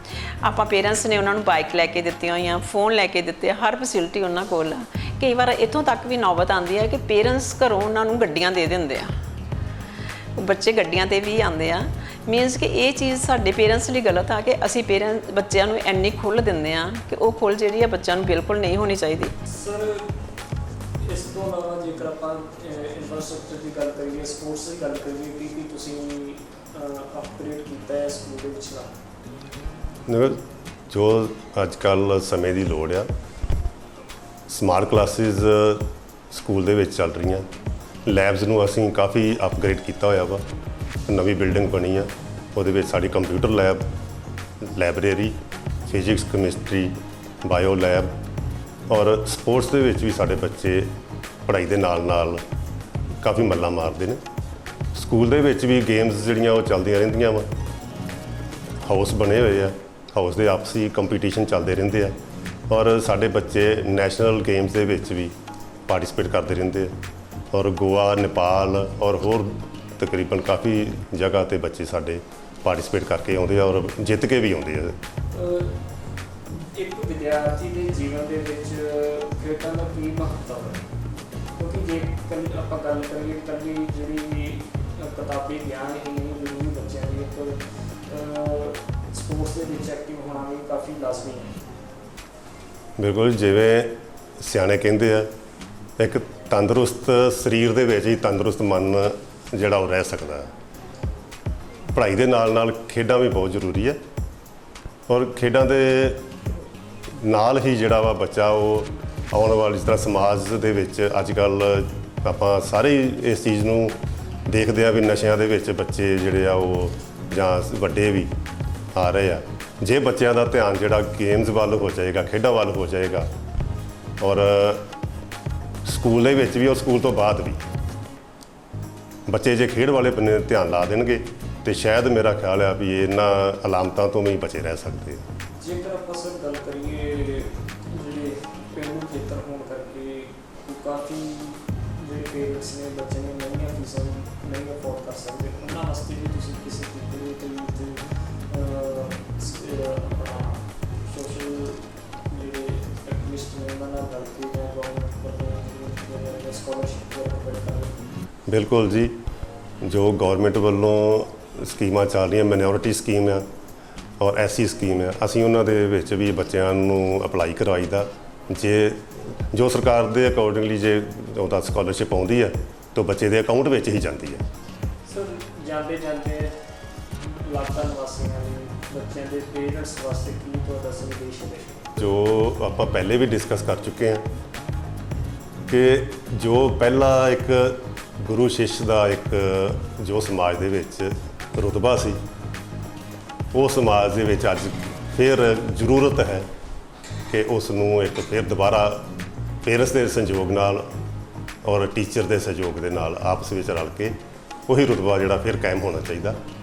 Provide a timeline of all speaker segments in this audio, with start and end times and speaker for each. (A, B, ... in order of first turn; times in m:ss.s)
0:00.4-0:09.1 A
0:10.4-0:19.3 A
0:19.4-0:20.0 B
0:21.0-0:29.0 B
0:30.9-0:33.0 C
0:34.5-0:35.8 C
0:36.4-0:37.4 C
0:38.1-0:40.4 C
0:41.1-0:42.0 C
0:42.6-0:43.8 C
0:44.8-0:45.3 C
0:45.9-0:46.9 C
0:47.5-0:48.0 C
0:48.9-0:50.8 C
0:51.5-0:52.4 C
0:53.2-0:54.2 C
0:55.0-0:57.4 C
0:58.9-1:02.1 C
1:02.7-1:05.3 C
1:05.9-1:06.9 C
1:07.5-1:09.5 C
1:10.0-1:14.9 C
1:15.3-1:15.8 B
1:16.7-1:20.8 B
1:21.6-1:31.6 B
1:33.0-1:33.9 C
1:34.5-1:35.2 C
1:36.0-1:39.0 C
1:39.6-1:40.4 C
1:41.9-1:43.9 C
1:45.1-1:46.2 C
1:47.2-1:51.6 C
1:52.2-1:53.9 C
1:54.5-1:58.3 C
1:59.0-2:03.2 C
2:04.2-2:04.8 C
2:05.9-2:07.5 C
2:09.3-2:15.2 C
2:15.6-2:38.0 B
2:38.5-2:39.0 C
2:39.9-2:43.4 C
2:44.2-2:48.0 C
2:48.5-2:49.0 C
2:49.6-2:54.4 C
2:55.1-2:56.5 B
2:57.5-3:01.9 B
3:02.0-3:04.2 C
3:05.7-3:07.5 C
3:08.2-3:11.1 C
3:11.6-3:12.1 C
3:13.5-3:16.4 C
3:17.3-3:19.0 C
3:19.7-3:20.8 C
3:21.6-3:24.1 C
3:24.7-3:26.3 C